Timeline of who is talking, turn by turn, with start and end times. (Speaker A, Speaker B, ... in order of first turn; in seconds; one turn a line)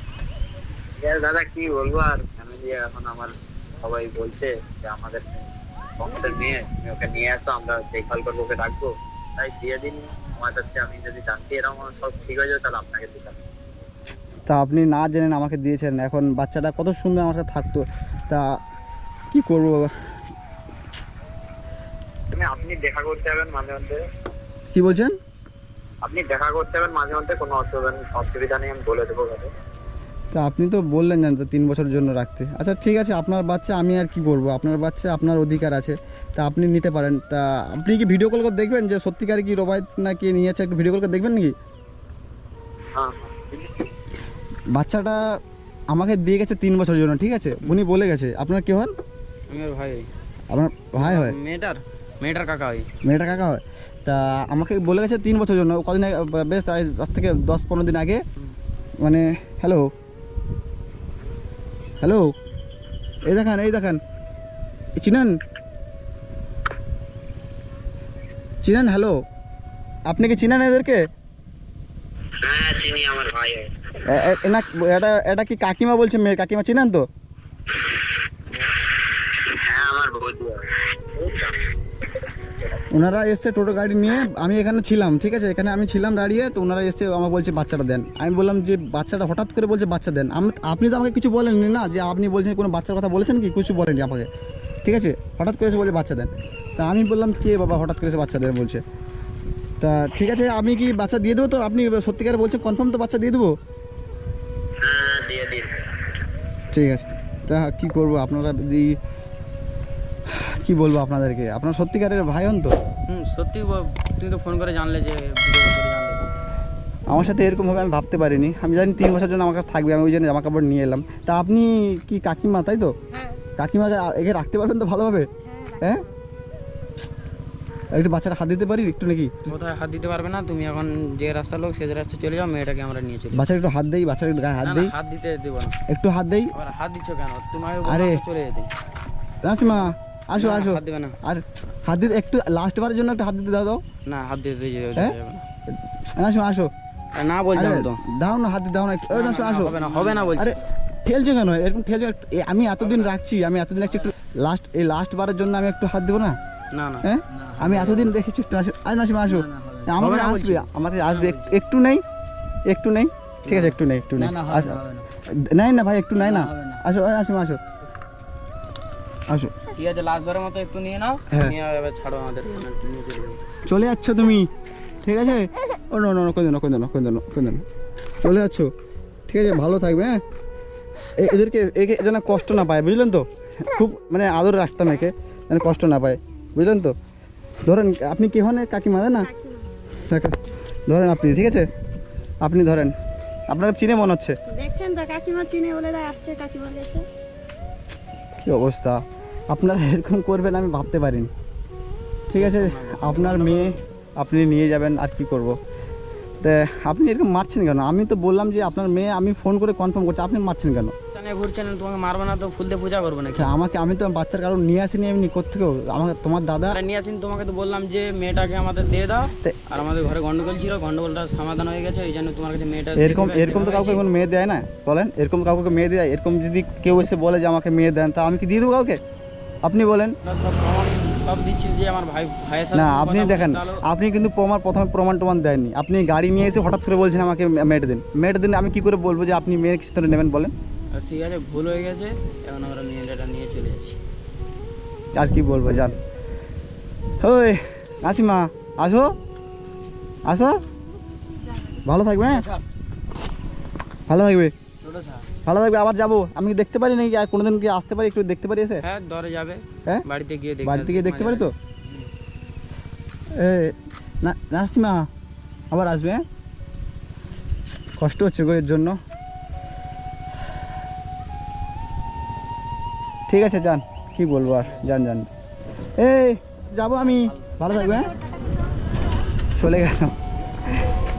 Speaker A: 1.0-13.4
Speaker B: 14.5-18.6
Speaker B: 19.3-19.9
Speaker A: 22.3-24.0
Speaker B: 24.7-25.1
Speaker A: 26.0-29.5
Speaker B: 30.3-41.5
Speaker A: 42.9-43.7
Speaker B: 44.7-45.2
Speaker B: 45.9-48.9
Speaker C: 49.5-50.1
Speaker B: 50.5-51.4
Speaker C: 51.0-52.9
Speaker B: 53.0-58.2
Speaker B: 59.0-59.9
Speaker B: 62.0-62.3
Speaker B: 63.2-64.0
Speaker B: 65.0-65.3
Speaker B: 68.6-69.2
Speaker B: 70.1-71.0
Speaker A: 72.4-73.7
Speaker B: 74.0-77.0
Speaker A: 79.2-81.6
Speaker A: 82.2-82.7
Speaker B: 82.9-94.3
Speaker B: 94.8-98.8
Speaker B: 99.8-103.5
Speaker A: 104.8-105.9
Speaker B: 106.7-109.0
Speaker B: 110.3-112.7
Speaker C: 113.1-116.3
Speaker B: 117.1-122.9
Speaker D: 123.1-123.4
Speaker B: 123.6-126.0
Speaker D: 125.4-126.0
Speaker B: 127.9-129.4
Speaker C: 129.5-133.5
Speaker B: 133.3-134.9
Speaker C: 134.6-135.8
Speaker B: 135.9-136.5
Speaker C: 136.5-138.7
Speaker B: 137.8-138.2
Speaker B: 139.4-143.8
Speaker C: 140.4-141.2
Speaker C: 144.1-145.4
Speaker B: 146.1-146.7
Speaker C: 147.1-148.0
Speaker B: 147.5-149.7
Speaker C: 149.1-150.6
Speaker B: 150.3-156.4
Speaker C: 152.8-153.1
Speaker C: 156.7-157.1
Speaker B: 157.0-162.0
Speaker C: 157.6-158.1
Speaker C: 159.4-161.6
Speaker B: 162.7-167.6
Speaker C: 163.4-165.0
Speaker C: 166.3-166.6
Speaker B: 169.3-169.5
Speaker C: 169.7-173.4
Speaker B: 171.3-171.5
Speaker B: 173.7-174.5
Speaker B: 175.0-177.6
Speaker B: 178.2-178.7
Speaker B: 179.3-180.2
Speaker B: 181.2-186.9
Speaker B: 187.6-189.3
Speaker D: 189.2-189.7
Speaker B: 190.0-191.7
Speaker B: 192.4-192.9
Speaker B: 193.5-194.4
Speaker D: 194.5-197.1
Speaker B: 198.4-201.3
Speaker B: 202.3-205.6
Speaker C: 202.3-203.8
Speaker B: 206.4-210.9
Speaker C: 211.1-213.5
Speaker B: 213.3-216.8
Speaker C: 216.7-224.0
Speaker B: 222.9-229.0
Speaker B: 229.6-230.2
Speaker C: 230.2-233.8
Speaker B: 232.7-240.5
Speaker C: 240.9-244.0
Speaker B: 245.1-245.9
Speaker B: 247.2-249.1
Speaker B: 250.2-250.6
Speaker B: 251.8-252.4
Speaker B: 254.1-254.5
Speaker C: 254.8-255.2
Speaker B: 255.4-258.8
Speaker C: 258.8-262.1
Speaker B: 260.6-261.5
Speaker B: 263.4-265.1
Speaker B: 265.7-266.2
Speaker B: 268.0-269.0
Speaker B: 273.3-275.3
Speaker B: 276.0-278.2
Speaker D: 278.2-278.6
Speaker B: 279.6-280.1